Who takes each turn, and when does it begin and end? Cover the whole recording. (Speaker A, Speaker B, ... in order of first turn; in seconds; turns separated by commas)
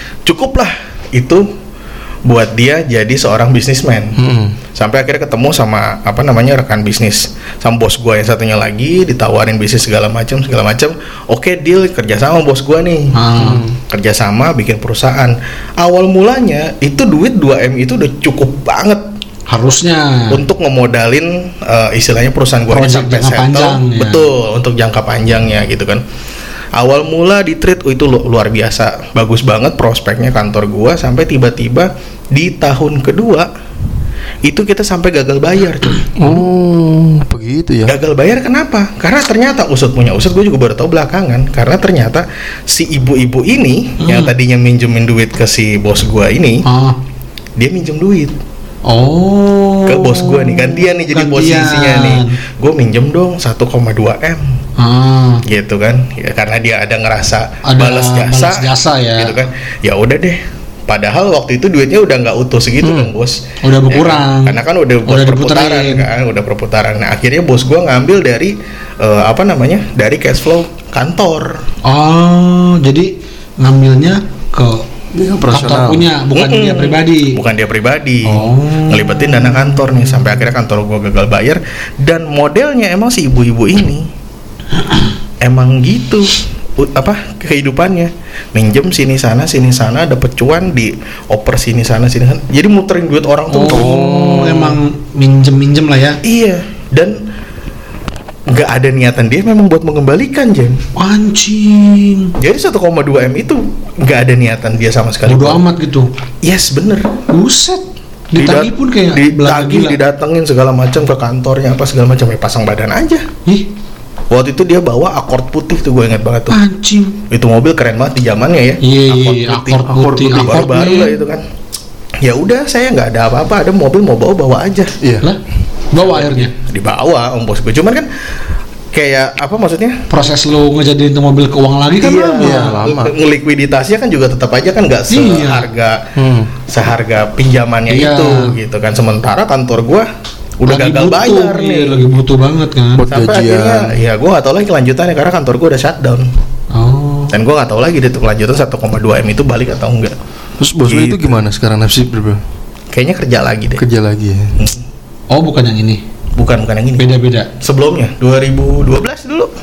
Speaker A: 0.3-1.5, Speaker A: 2.3-4.2, Speaker B: 4.2-4.6, Speaker A: 4.8-13.2, Speaker C: 13.1-13.6, Speaker B: 13.4-13.8, Speaker A: 13.8-19.1, Speaker C: 19.5-20.4, Speaker A: 20.3-26.0, Speaker C: 22.7-24.3, Speaker A: 26.8-33.5, Speaker A: 34.4-36.1, Speaker B: 36.2-38.0, Speaker A: 37.9-46.6, Speaker C: 44.0-44.3, Speaker C: 46.6-47.0, Speaker A: 47.6-48.4, Speaker C: 48.9-52.4, Speaker A: 49.9-54.5, Speaker C: 54.8-55.5, Speaker A: 55.5-71.6, Speaker C: 57.6-59.4, Speaker B: 62.8-63.1, Speaker C: 63.6-66.0, Speaker C: 71.8-74.9, Speaker B: 75.1-76.1, Speaker C: 75.5-77.4, Speaker A: 76.3-84.1, Speaker C: 78.3-80.4, Speaker C: 84.8-85.1, Speaker A: 85.4-94.0, Speaker C: 93.5-96.2, Speaker B: 93.7-94.8, Speaker A: 96.2-97.2, Speaker A: 98.5-100.8, Speaker C: 101.0-102.3, Speaker A: 102.4-105.6, Speaker C: 105.3-106.1, Speaker A: 106.4-107.1, Speaker C: 107.3-110.0, Speaker A: 108.4-113.3, Speaker A: 114.3-116.5, Speaker C: 116.5-117.2, Speaker A: 117.3-121.4, Speaker C: 118.8-121.2, Speaker B: 119.9-120.7, Speaker A: 122.2-125.0, Speaker B: 125.0-125.3, Speaker C: 125.9-126.5, Speaker A: 126.0-128.1, Speaker A: 128.9-130.0, Speaker C: 130.1-132.8, Speaker A: 132.0-136.0, Speaker B: 132.4-133.2, Speaker C: 135.1-135.7, Speaker B: 136.2-136.5, Speaker A: 136.7-140.1, Speaker C: 137.9-138.5, Speaker A: 140.6-142.0, Speaker C: 140.7-143.1, Speaker B: 143.0-144.0, Speaker A: 143.1-146.3, Speaker C: 146.7-147.4, Speaker A: 147.3-150.2, Speaker B: 150.6-152.4, Speaker A: 150.9-151.4, Speaker A: 152.9-153.8, Speaker B: 153.8-154.6, Speaker C: 155.3-156.0, Speaker A: 156.4-157.1, Speaker C: 157.0-157.5, Speaker A: 157.6-159.5